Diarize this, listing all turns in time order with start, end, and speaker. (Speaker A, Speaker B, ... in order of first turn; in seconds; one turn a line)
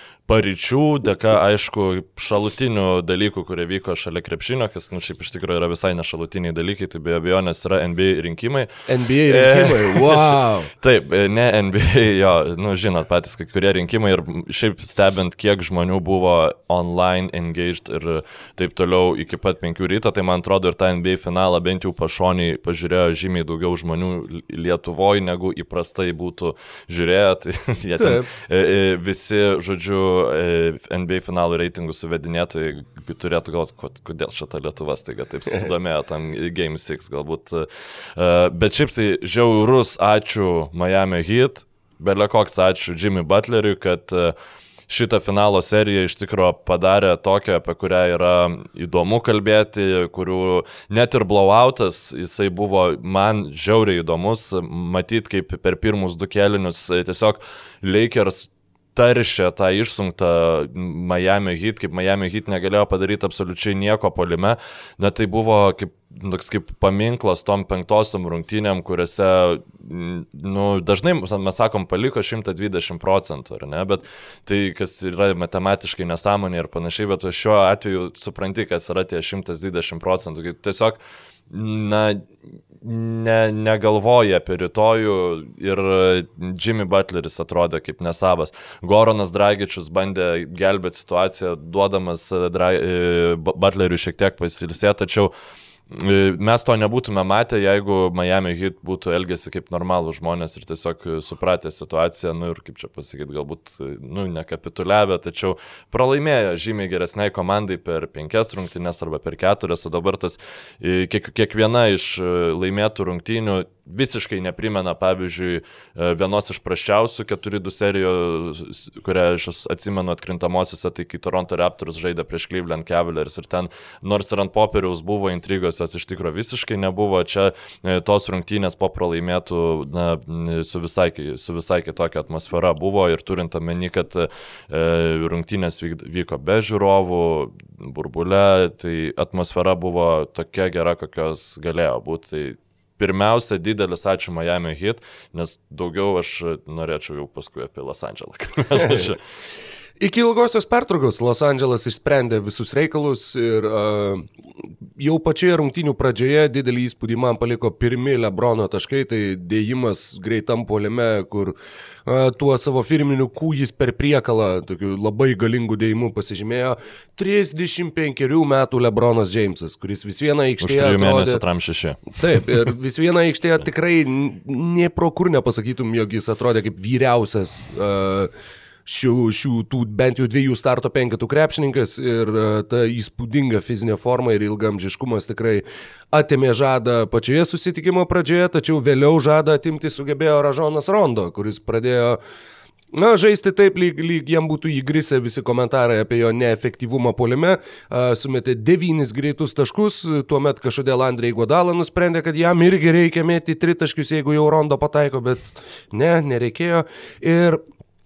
Speaker A: 0.3-8.7
Speaker B: 8.9-10.7
Speaker A: 9.2-44.3
Speaker B: 27.9-28.3
Speaker A: 44.9-95.3
Speaker A: 95.9-149.2
Speaker B: 148.8-149.1
Speaker B: 150.0-154.3
Speaker B: 155.0-161.5
Speaker B: 162.1-171.4
Speaker A: 170.6-172.5
Speaker B: 172.1-178.3
Speaker B: 178.8-192.2
Speaker B: 192.9-207.6